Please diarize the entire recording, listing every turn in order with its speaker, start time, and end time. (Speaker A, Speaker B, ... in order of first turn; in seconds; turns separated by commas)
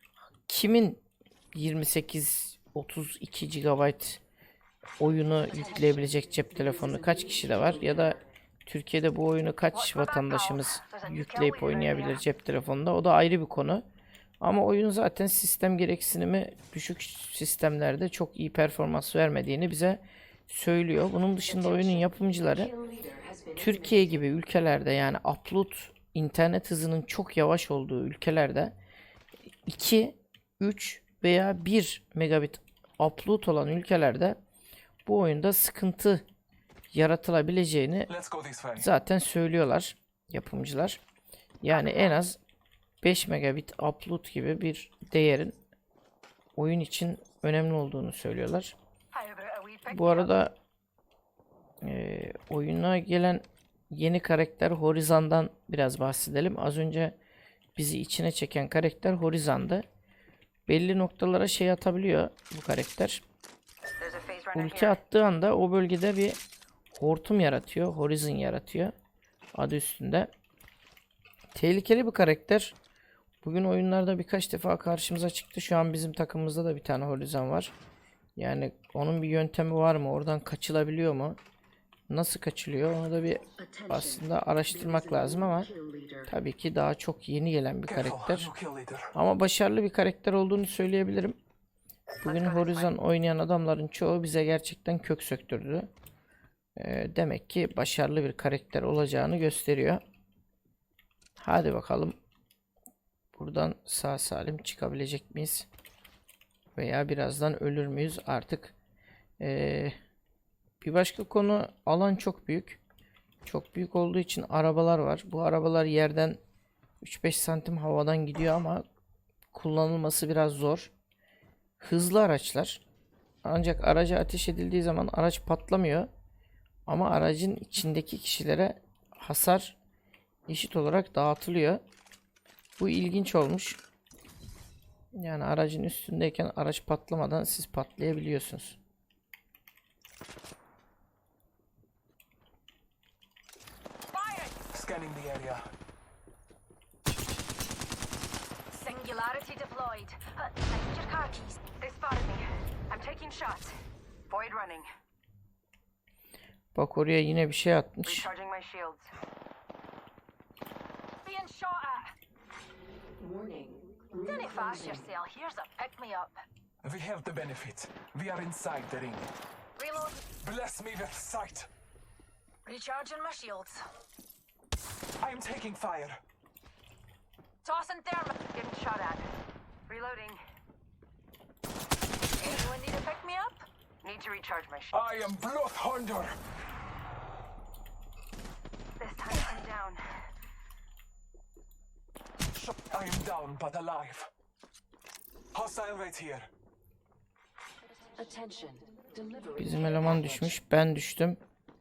Speaker A: 0.5-4.2, Speaker A: 5.0-13.9, Speaker B: 5.5-8.3, Speaker C: 9.7-12.2, Speaker A: 14.4-22.7, Speaker B: 21.4-24.3, Speaker A: 23.6-28.8, Speaker A: 29.6-34.4, Speaker A: 35.1-36.2, Speaker A: 36.9-38.1, Speaker D: 38.1-38.9, Speaker A: 38.8-41.0, Speaker A: 41.6-42.4, Speaker A: 43.0-45.6, Speaker A: 46.6-48.8, Speaker E: 49.1-50.3, Speaker A: 49.9-50.5, Speaker A: 51.8-57.2, Speaker A: 57.8-59.9, Speaker A: 60.7-63.2, Speaker C: 64.0-65.0, Speaker A: 64.5-66.4, Speaker A: 66.9-68.9, Speaker A: 69.5-70.3, Speaker A: 71.5-72.8, Speaker A: 73.4-77.7, Speaker A: 78.4-81.4, Speaker A: 82.1-85.7, Speaker B: 83.5-86.3, Speaker A: 86.3-88.5, Speaker D: 87.9-89.1, Speaker A: 89.1-91.4, Speaker A: 92.2-95.9, Speaker C: 92.2-92.9, Speaker A: 96.8-100.0, Speaker A: 101.4-102.2, Speaker A: 103.3-105.7, Speaker A: 106.8-108.7, Speaker A: 109.4-110.0, Speaker A: 110.8-112.8, Speaker A: 113.5-116.4, Speaker A: 117.0-118.8, Speaker A: 119.5-120.9, Speaker A: 121.8-122.8, Speaker A: 123.4-126.1, Speaker A: 126.9-129.8, Speaker A: 130.5-131.8, Speaker A: 132.8-133.8, Speaker A: 135.1-138.8, Speaker E: 144.1-144.6, Speaker D: 144.7-145.7, Speaker E: 148.7-151.6, Speaker C: 151.8-153.7, Speaker C: 154.3-154.9, Speaker A: 156.8-158.3, Speaker C: 158.1-159.1, Speaker E: 161.2-162.1, Speaker B: 163.2-165.1, Speaker E: 164.2-166.4, Speaker D: 166.8-169.3, Speaker E: 169.8-170.2, Speaker D: 170.4-171.7, Speaker E: 172.7-173.8, Speaker D: 175.2-176.2, Speaker E: 177.6-178.3, Speaker C: 178.5-179.2, Speaker C: 179.9-180.4, Speaker E: 182.4-183.6, Speaker C: 184.0-184.9, Speaker D: 184.9-186.4, Speaker C: 189.0-190.0, Speaker D: 192.5-194.3, Speaker D: 195.5-196.5, Speaker B: 198.2-200.6, Speaker A: 199.6-201.4